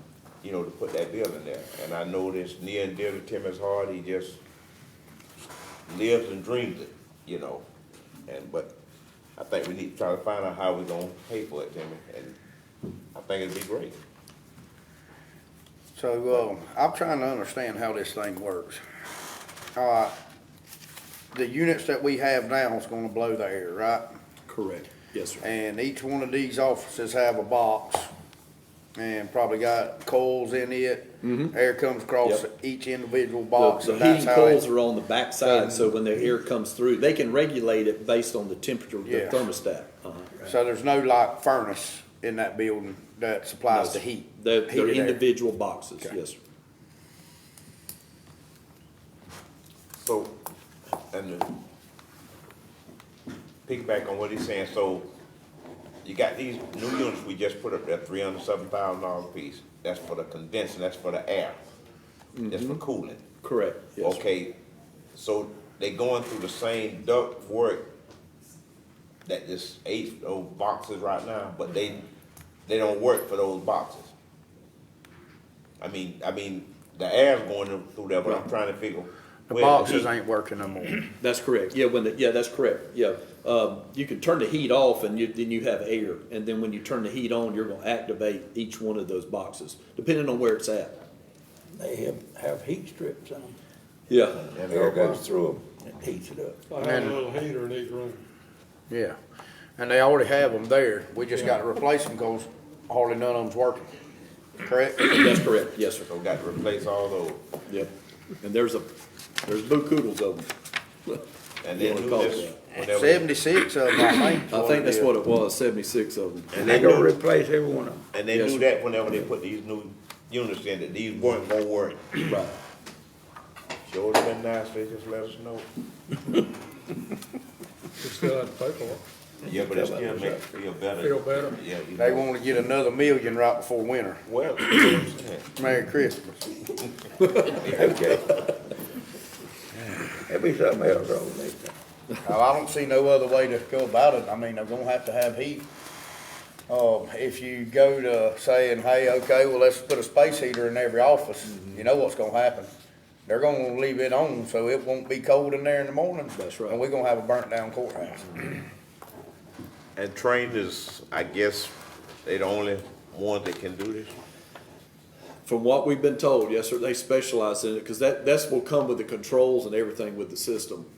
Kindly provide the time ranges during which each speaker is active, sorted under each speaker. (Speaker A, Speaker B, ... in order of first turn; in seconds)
Speaker A: 0.4-4.4, 5.9-7.6, 8.3-8.7, 9.4-12.4, 13.1-14.0, 50.0-50.4, 51.1-51.5, 53.6-55.1, 56.0-61.6, 62.5-63.2, 64.0-64.5, 65.1-67.9, 69.2-72.0, 72.7-74.1, 75.8-80.1, 94.3-95.2, 106.1-107.4, 111.6-113.3, 116.5-117.2, 118.1-122.3, 123.8-125.7, 129.4-132.3, 134.3-135.5, 137.4-138.3, 159.9-161.7, 162.2-164.1
Speaker B: 15.9-18.8, 19.7-20.1, 21.3-24.0, 25.4-28.1, 28.9-34.6, 35.4-35.9, 39.0-39.4, 40.4-45.2, 79.5-81.0, 96.8-97.2, 98.9-99.2, 99.8-103.9, 104.6-105.1, 112.8-115.1, 132.0-134.2, 135.6-136.3, 142.2-145.7, 146.7-152.7, 153.3-158.6
Speaker C: 24.5-25.4, 31.2-31.5, 33.6-40.5, 43.7-46.4, 62.4-62.8, 63.4-64.2, 81.2-91.0, 94.1-94.4, 105.0-106.1, 108.4-108.9, 109.4-110.5, 111.8-112.6, 114.5-116.6, 118.3-118.6, 122.3-122.5, 151.5-151.8, 156.3-156.8, 165.4-170.9
Speaker D: 91.7-93.5, 94.6-96.7, 116.6-118.0, 129.5-130.4, 137.6-138.4, 140.1-141.7
Speaker E: 96.7-98.2, 128.0-129.0, 131.0-131.5